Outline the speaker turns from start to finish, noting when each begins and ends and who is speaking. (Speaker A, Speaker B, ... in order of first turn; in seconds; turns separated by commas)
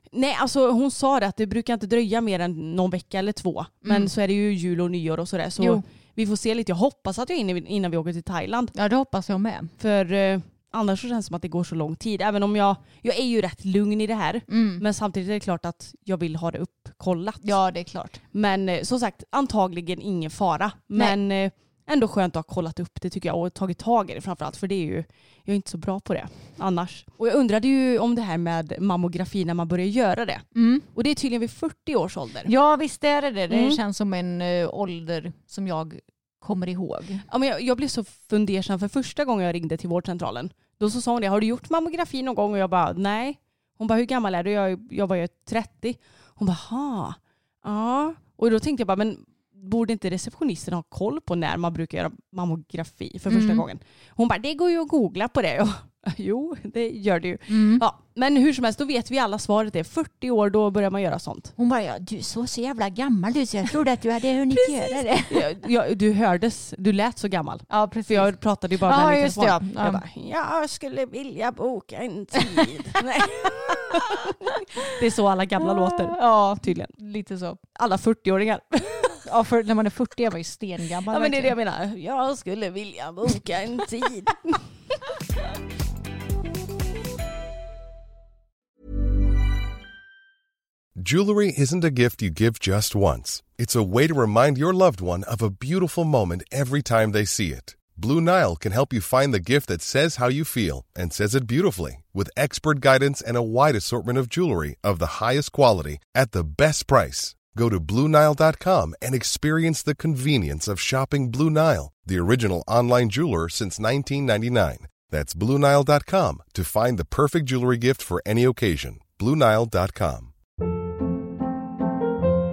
Speaker A: 0.1-8.7, Speaker B: 3.8-4.1, Speaker B: 5.6-5.8, Speaker B: 8.7-9.7, Speaker A: 9.8-17.5, Speaker B: 14.5-14.8, Speaker B: 17.4-18.2, Speaker A: 18.3-32.5, Speaker B: 30.5-30.9, Speaker B: 32.4-37.2, Speaker A: 33.5-33.8, Speaker A: 37.3-61.5, Speaker B: 53.3-53.6, Speaker B: 57.5-57.8, Speaker B: 61.6-65.5, Speaker A: 64.5-76.9, Speaker B: 67.7-68.3, Speaker B: 68.8-70.0, Speaker B: 73.0-74.9, Speaker B: 75.6-77.6, Speaker A: 77.8-79.2, Speaker B: 79.2-81.5, Speaker A: 81.1-84.7, Speaker C: 91.0-120.3